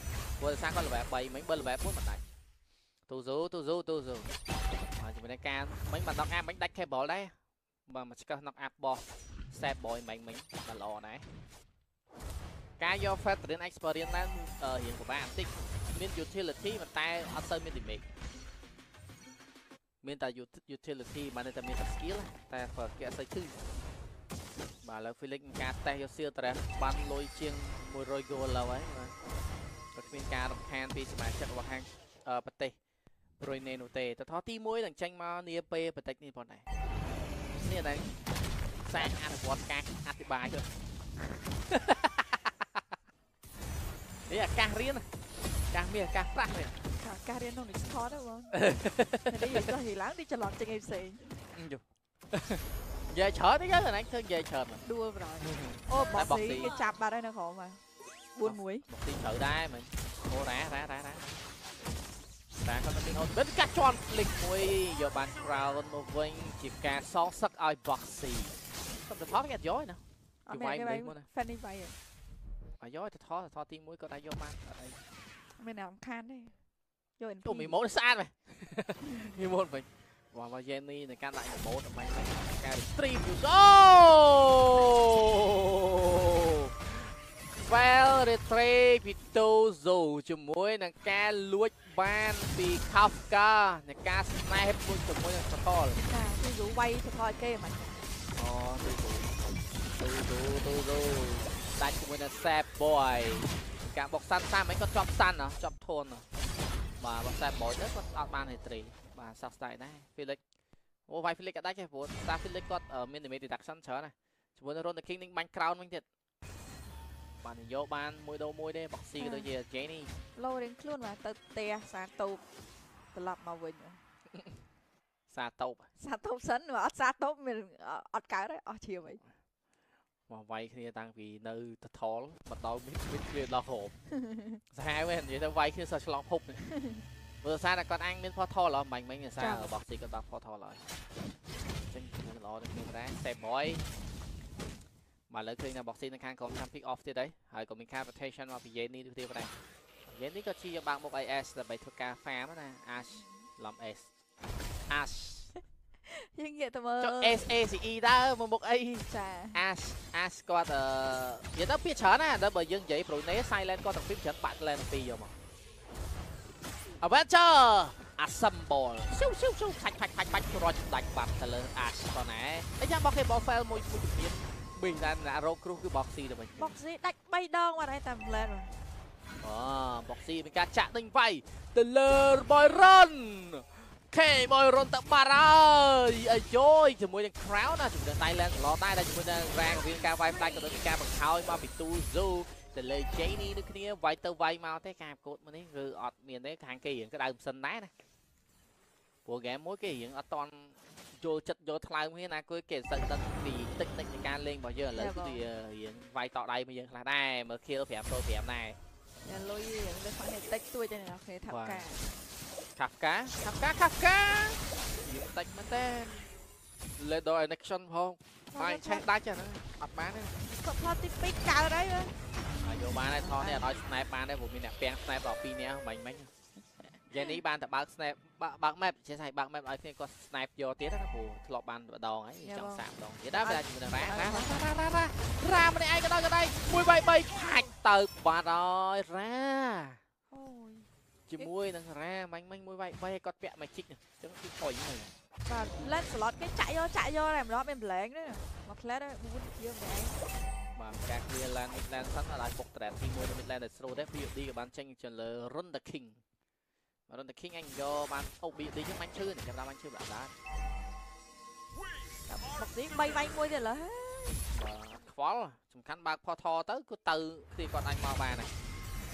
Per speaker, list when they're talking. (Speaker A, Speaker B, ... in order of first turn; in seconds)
Speaker A: 0.4-2.2, 3.1-4.3, 5.0-7.3, 7.9-11.2, 12.8-18.1, 20.0-23.6, 24.8-29.1, 29.9-32.8, 33.4-36.6, 37.6-38.1, 38.9-40.7, 41.7-42.8, 44.3-45.0, 45.7-46.8, 48.5-49.7, 51.5-54.8, 55.4-56.7, 58.4-61.3, 62.6-68.5, 69.1-71.3, 72.8-75.0, 77.4-96.0, 98.3-106.2, 107.0-110.4, 111.1-116.0, 117.4-120.1, 125.3-125.9, 130.3-133.9, 134.7-136.7, 137.4-140.8, 141.9-143.8, 145.3-149.5, 150.1-154.1, 154.9-155.5, 157.0-165.3, 167.0-176.8, 179.4-197.9, 199.2-208.8, 211.5-211.9, 212.8-216.3, 217.0-220.3, 222.6-226.3, 227.1-240.0, 241.3-245.1, 250.8-256.2, 257.1-260.3, 264.5-268.5
Speaker B: 47.0-48.5, 49.3-51.2, 54.8-57.8, 58.3-58.9, 70.5-72.0, 75.6-76.5, 77.2-77.8, 96.0-97.9, 119.2-119.5, 120.3-122.4, 123.1-124.0, 126.0-129.2, 134.1-134.6, 136.7-137.0, 139.4-139.7, 156.1-157.4, 159.1-159.6, 176.6-178.7, 204.9-205.4, 209.2-212.1, 218.5-219.1, 220.6-222.1, 223.2-223.7, 232.4-232.8, 233.3-234.6, 240.3-241.5, 245.4-250.2, 262.3-264.4